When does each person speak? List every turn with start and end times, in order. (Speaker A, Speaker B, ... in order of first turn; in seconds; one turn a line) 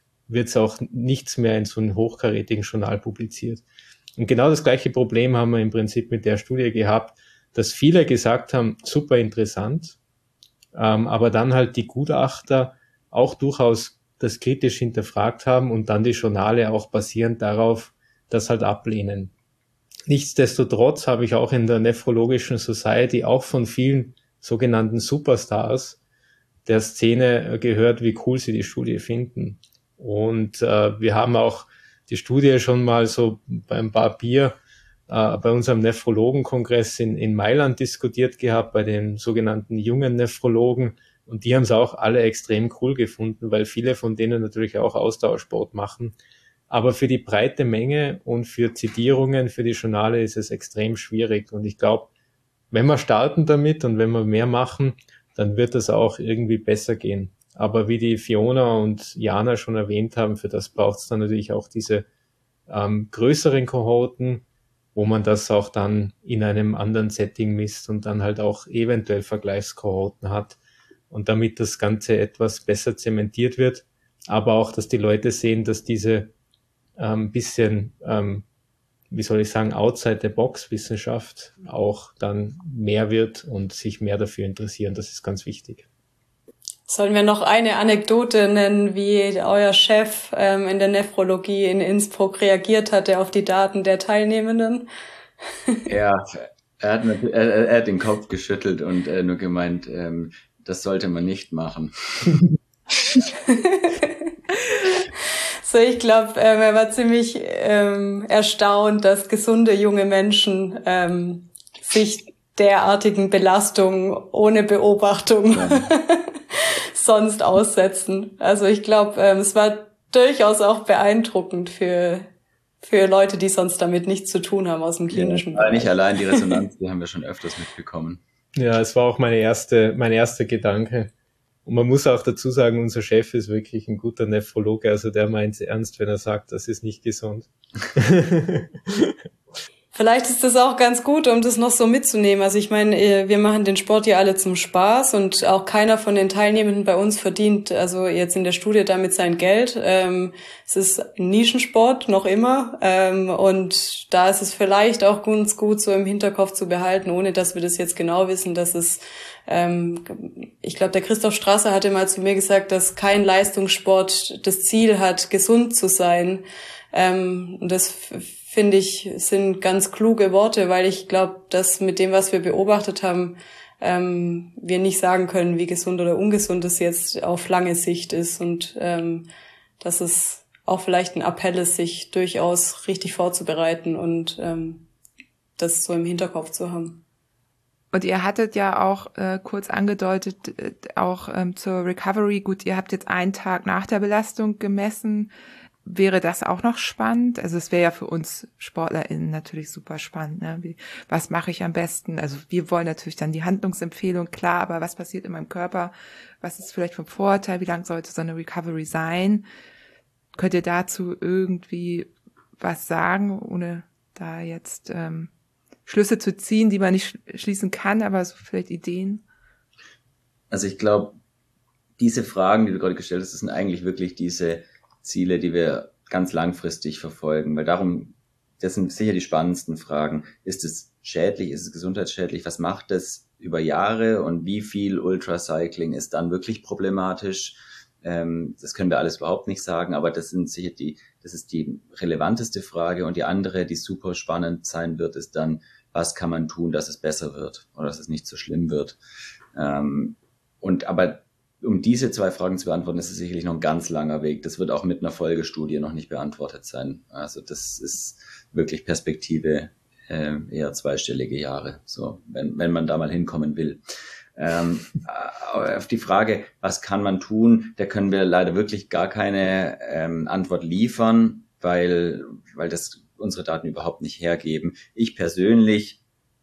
Speaker A: 0.3-3.6
Speaker A: 4.2-10.0
Speaker A: 10.7-19.3
Speaker A: 20.1-26.0
Speaker A: 26.6-34.5
Speaker A: 35.1-46.1
Speaker A: 46.7-52.1
Speaker A: 52.7-62.0
Speaker A: 62.7-70.6
Speaker A: 71.1-76.3
Speaker A: 77.0-78.5
Speaker A: 79.1-85.8
Speaker B: 86.9-94.9
Speaker C: 95.9-102.4
Speaker B: 103.4-104.3
Speaker B: 104.8-122.3
Speaker C: 115.5-115.9
Speaker B: 122.8-126.6
Speaker C: 125.1-128.2
Speaker A: 128.6-131.1
Speaker A: 131.7-139.1
Speaker B: 139.9-179.3
Speaker B: 179.8-184.9
Speaker B: 185.6-187.0
Speaker D: 187.9-195.3
Speaker D: 195.8-209.4
Speaker D: 210.3-215.3
Speaker D: 215.8-219.2
Speaker C: 220.5-221.2
Speaker C: 222.0-249.0
Speaker C: 249.5-263.8
Speaker C: 264.4-276.0